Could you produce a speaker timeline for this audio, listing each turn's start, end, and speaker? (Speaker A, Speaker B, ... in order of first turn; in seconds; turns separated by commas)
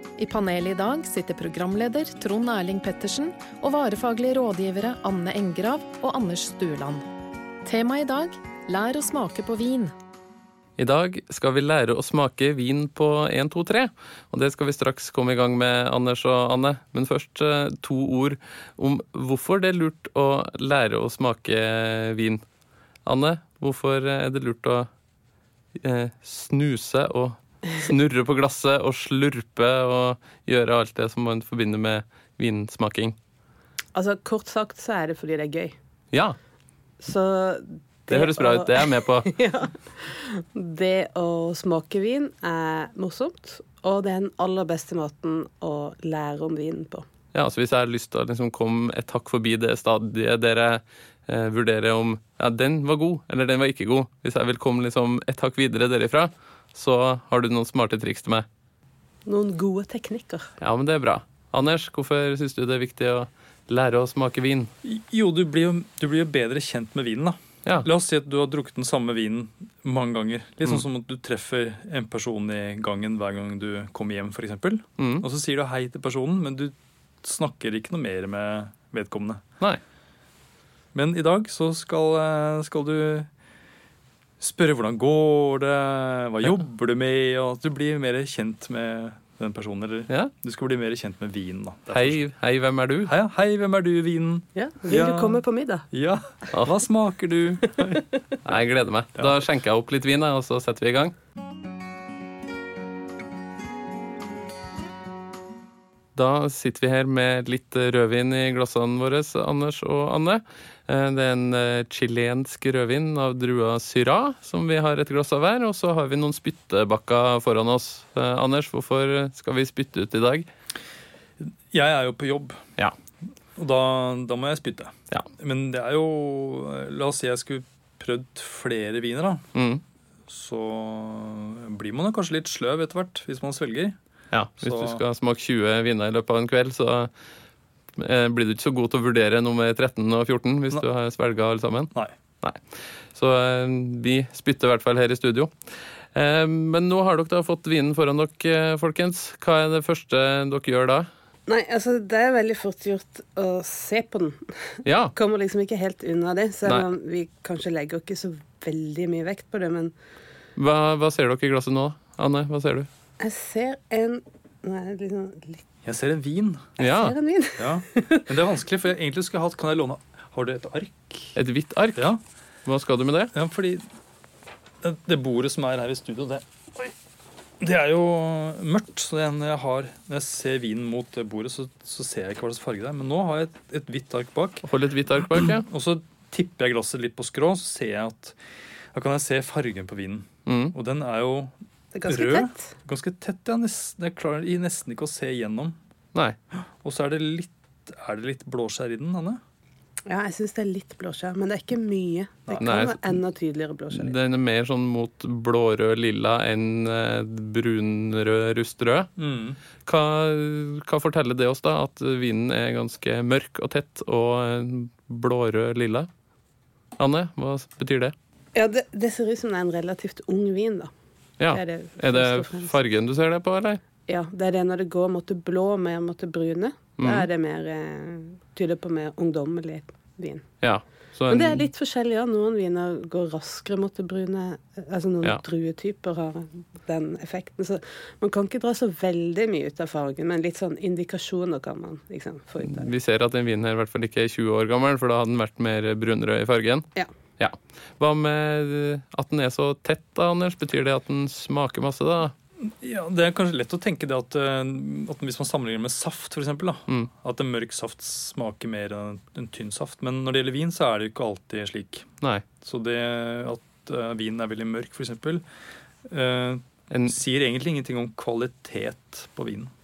Speaker A: 0.2-7.0, Speaker A: 7.6-9.9, Speaker B: 10.8-22.4, Speaker B: 23.1-24.9, Speaker B: 25.8-33.1, Speaker C: 33.9-35.7, Speaker B: 36.1-36.4, Speaker C: 37.0-47.0, Speaker B: 38.1-39.3, Speaker B: 47.3-58.5, Speaker C: 59.2-60.5, Speaker B: 60.6-64.7, Speaker D: 64.8-79.4, Speaker B: 75.0-75.2, Speaker D: 80.9-83.3, Speaker D: 84.4-92.2, Speaker B: 91.9-93.1, Speaker D: 93.1-98.0, Speaker C: 94.5-95.8, Speaker B: 98.4-101.2, Speaker B: 106.2-120.5, Speaker D: 121.7-122.6, Speaker D: 123.5-129.4, Speaker B: 129.5-129.8, Speaker D: 130.3-133.9, Speaker B: 134.3-137.1, Speaker D: 134.6-135.0, Speaker B: 138.0-142.6, Speaker B: 143.1-145.5, Speaker B: 146.1-151.1, Speaker C: 151.5-159.9, Speaker B: 154.8-155.1, Speaker B: 160.6-162.9, Speaker C: 163.2-165.6, Speaker D: 165.8-166.7, Speaker B: 166.8-167.2, Speaker C: 166.8-168.3, Speaker D: 167.6-171.3, Speaker B: 171.3-172.1, Speaker B: 172.7-173.3, Speaker D: 173.3-173.8, Speaker D: 174.8-176.9, Speaker D: 177.6-184.7, Speaker B: 184.6-185.7, Speaker D: 185.3-188.3, Speaker D: 188.9-191.5, Speaker B: 190.4-190.8, Speaker C: 191.9-192.7, Speaker D: 192.1-195.8, Speaker D: 196.8-199.4, Speaker C: 200.1-204.2, Speaker B: 202.6-203.2, Speaker B: 203.9-209.1, Speaker D: 209.2-209.6, Speaker B: 209.8-216.1, Speaker B: 217.0-218.1, Speaker C: 218.5-220.9, Speaker B: 221.4-223.8, Speaker C: 221.5-222.8, Speaker C: 224.1-230.4, Speaker B: 227.0-227.3, Speaker B: 230.6-231.7, Speaker C: 231.3-242.9, Speaker B: 242.7-252.3, Speaker D: 252.6-262.1, Speaker D: 262.6-265.4, Speaker D: 266.1-269.7, Speaker B: 266.9-267.1